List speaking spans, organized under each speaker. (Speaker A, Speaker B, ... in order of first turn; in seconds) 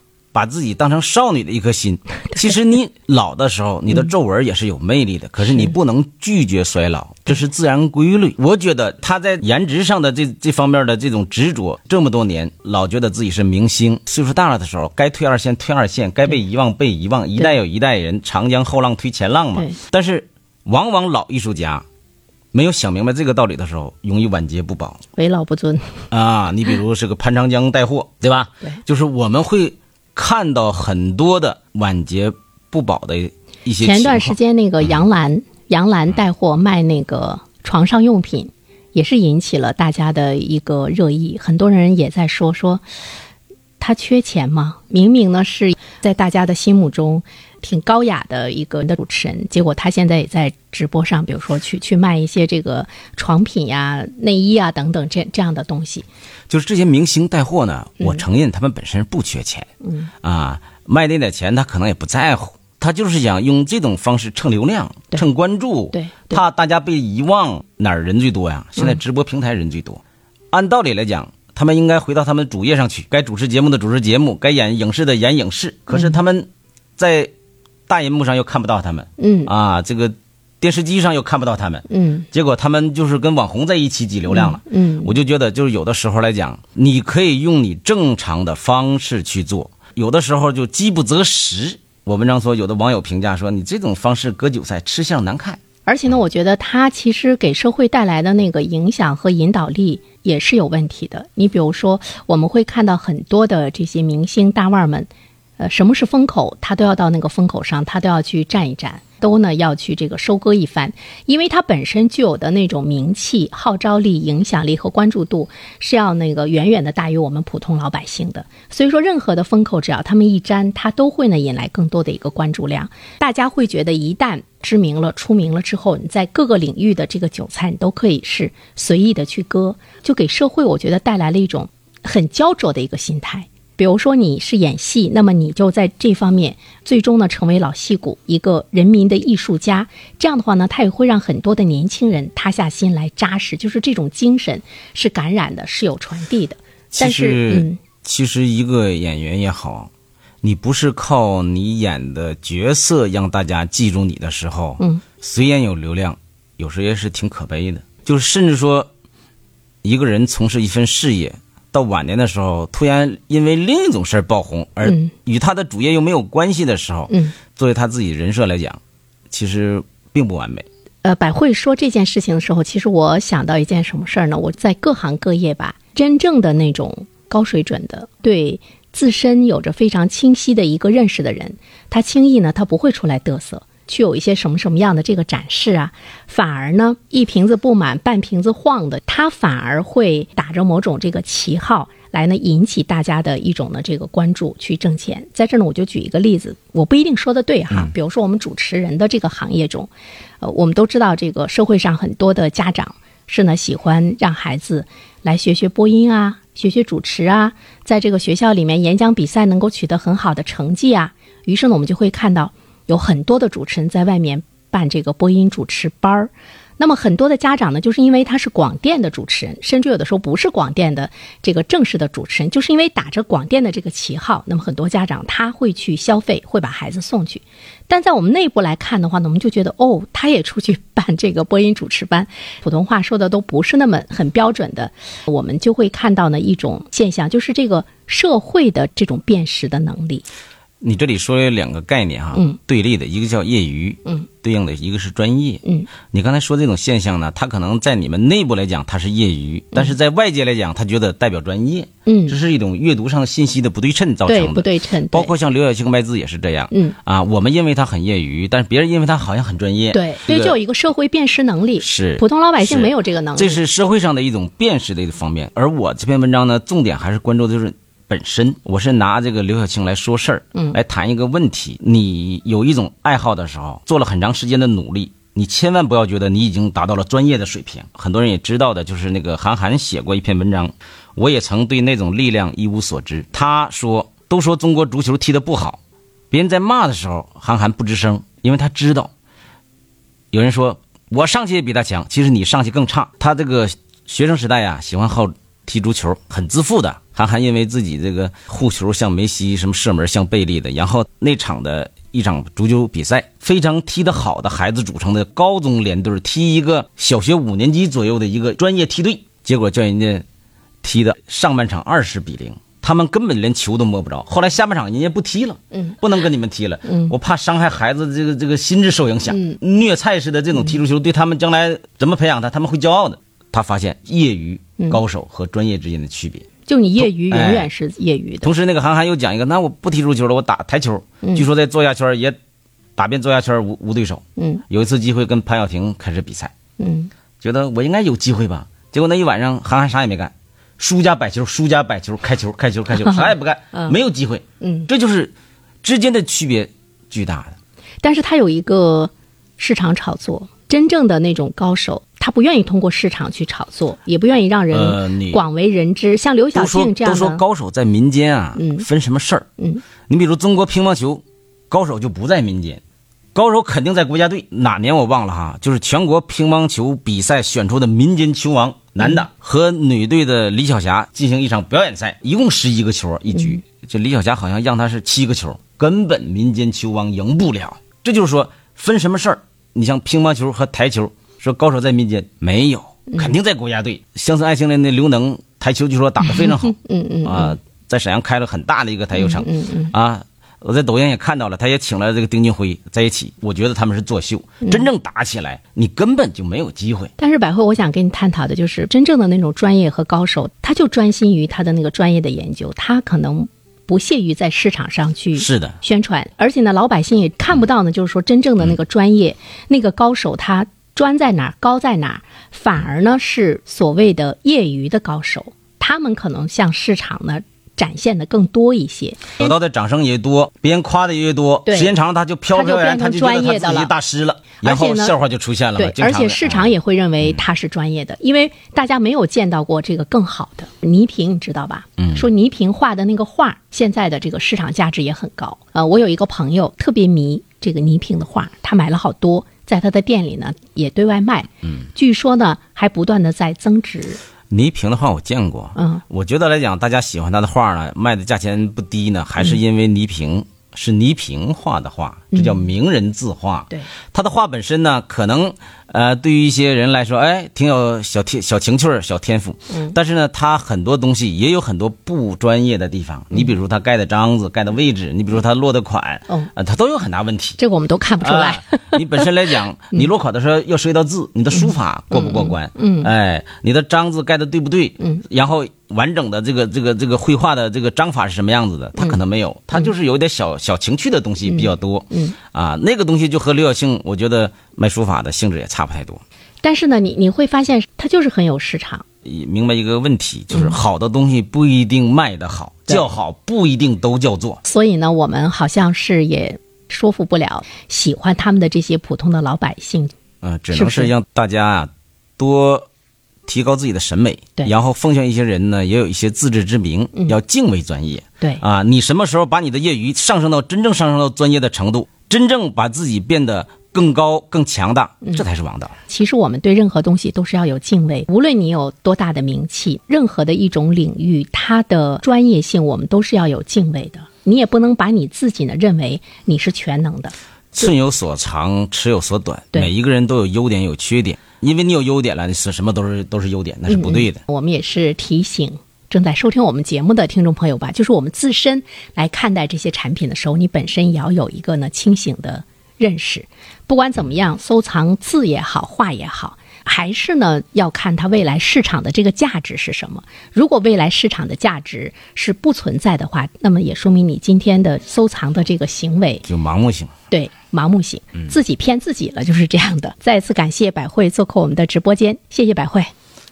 Speaker A: 0.3-21.9, 22.5-25.0, 26.1-34.4, 56.5-59.7, 60.2-70.0, 70.5-77.3, 77.9-95.6, 146.9-149.9, 150.4-158.9, 159.8-168.8, 169.3-170.7, 240.8-260.6, 261.8-285.8, 286.3-289.1, 290.3-310.2, 310.8-326.5, 327.0-327.7, 328.4-332.4, 333.0-336.5, 337.4-345.3, 345.8-347.6, 354.7-355.4, 356.5-359.5, 360.1-362.8, 363.4-397.1, 405.4-405.8, 419.4-427.4, 432.0-432.2, 444.5-467.6, 468.2-486.2, 489.2-494.6, 500.4-502.9, 503.5-516.0, 527.7-534.4, 556.5-557.1
Speaker B: 25.1-26.0, 33.8-42.8, 43.8-56.1, 59.8-60.1, 65.9-66.4, 79.2-79.5, 81.9-82.3, 84.3-85.2, 95.8-147.8, 164.8-165.1, 167.1-167.3, 171.0-240.2, 245.6-245.9, 252.1-252.4, 254.2-255.3, 256.7-257.0, 259.9-263.6, 315.7-316.0, 316.9-317.1, 319.3-319.6, 326.6-328.5, 331.2-331.5, 334.4-334.6, 336.8-337.1, 343.1-344.0, 344.6-344.9, 348.0-357.4, 358.6-358.9, 359.6-359.8, 369.0-369.2, 373.3-373.6, 386.5-387.6, 389.1-389.9, 397.2-419.5, 421.7-422.0, 422.5-423.9, 424.6-425.1, 425.8-444.2, 445.8-446.0, 452.3-452.7, 467.6-469.2, 471.5-473.1, 481.5-482.4, 486.6-489.0, 490.5-490.8, 494.6-500.1, 500.7-501.1, 516.1-527.3, 533.9-556.5, 557.3-563.1